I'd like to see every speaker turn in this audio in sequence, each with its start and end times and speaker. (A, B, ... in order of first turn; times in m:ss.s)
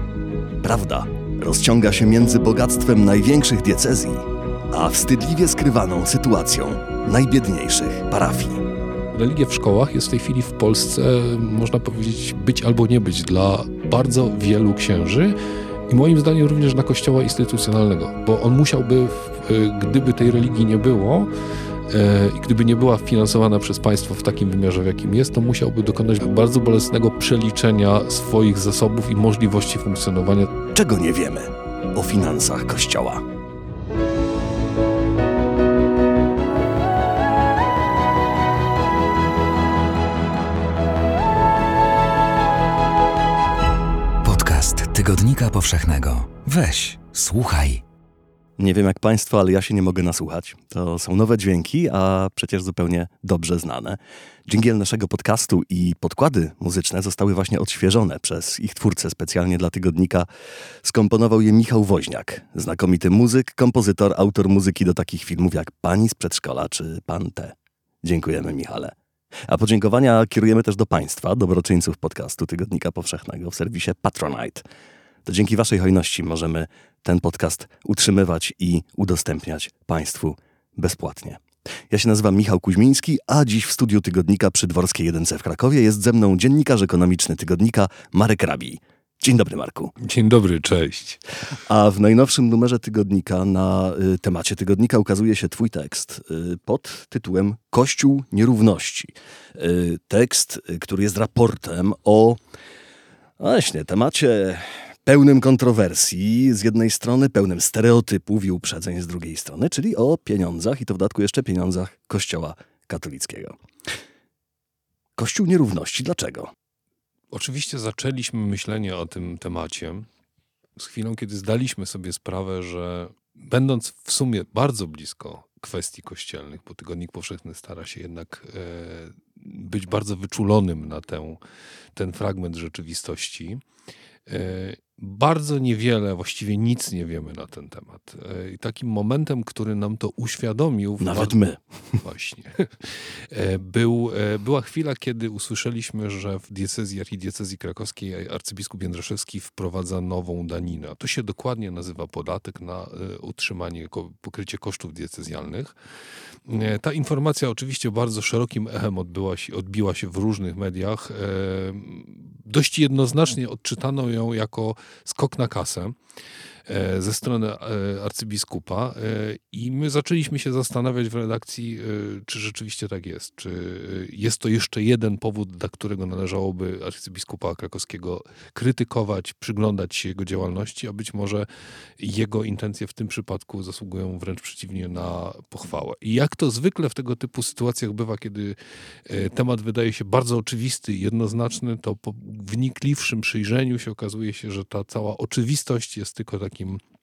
0:00.6-0:08.6 A
0:09.1-0:15.4 B
0:15.9-0:21.3 B
0:21.9-0:30.5 B
0:30.7-0:33.2 A
0:44.2-0:47.8 C
0:48.6-1:00.3 A
1:00.8-1:08.9 A
1:09.5-1:14.6 A
1:15.2-1:30.0 A
1:30.0-1:31.2 B
1:31.7-1:42.4 A
1:43.4-1:53.6 A
1:55.2-1:56.5 A
1:57.3-2:00.1 B
2:00.8-2:11.4 B
2:12.0-2:13.6 B
2:14.3-2:21.4 B
2:21.0-2:22.0 A
2:22.0-2:35.7 B
2:36.5-2:46.0 B
2:46.7-3:01.5 B
3:02.0-3:16.8 B